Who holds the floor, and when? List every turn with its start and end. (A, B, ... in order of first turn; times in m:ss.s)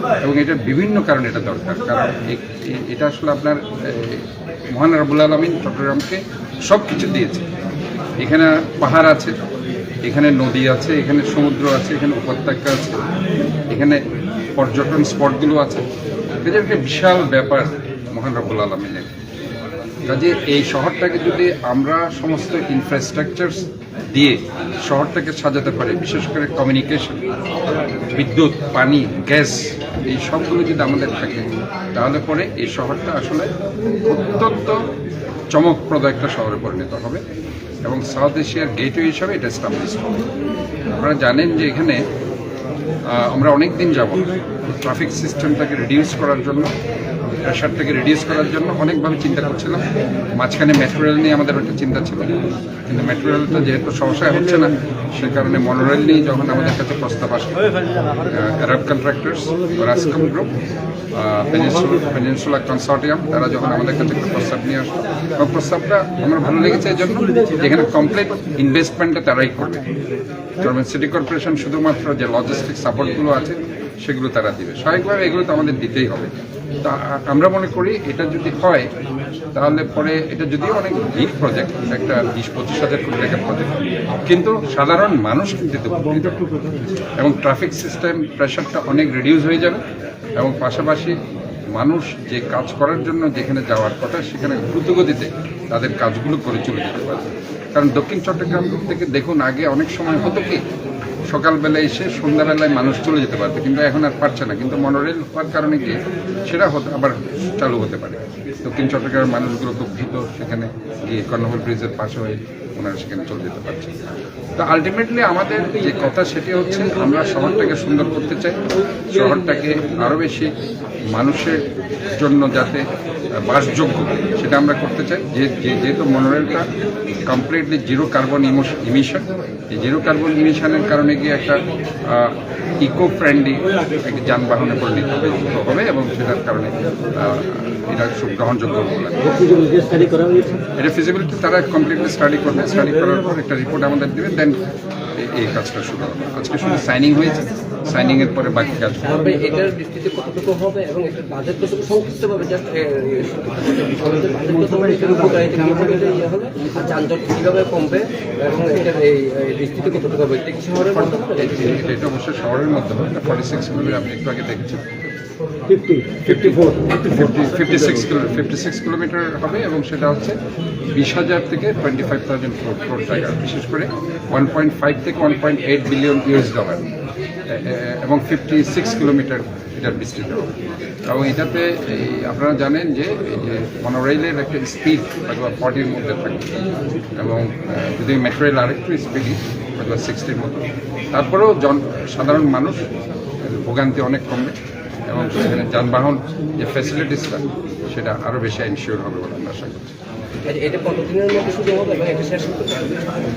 0:00.2-0:07.5 A
0:08.2-0:09.4 A
0:10.0-0:13.0 A
0:13.7-0:14.0 A
0:14.6-0:15.9 A
0:16.4-0:19.1 A
0:20.1-0:27.3 A
0:28.1-0:33.5 A
0:34.0-0:34.8 A
0:35.5-0:37.2 A
0:37.8-0:40.3 A
0:41.0-0:42.0 A
0:43.1-0:46.7 A
0:47.4-0:49.8 A
0:50.4-0:52.3 A
0:52.8-0:57.6 A
0:58.2-1:00.5 A
1:01.1-1:09.9 A
1:10.6-1:18.9 A
1:19.6-1:26.5 A
1:27.2-1:29.8 A
1:30.4-1:31.2 A
1:31.8-1:40.6 A
1:41.3-1:53.9 A
1:54.6-2:00.5 A
1:56.9-1:57.4 B
1:59.0-1:59.8 B
2:01.1-2:02.9 A
2:03.4-2:06.7 A
2:07.2-2:19.4 A
2:19.2-2:20.6 C
2:20.8-2:24.6 A
2:25.2-2:29.2 A
2:29.0-2:41.8 B
2:40.8-2:44.8 A
2:45.7-2:48.0 C
2:46.2-2:50.4 A
2:50.9-2:56.9 A
2:57.5-3:00.5 A
3:01.1-3:06.5 A
3:07.2-3:12.8 A
3:13.4-3:14.5 A
3:15.1-3:19.9 A
3:20.5-3:23.0 B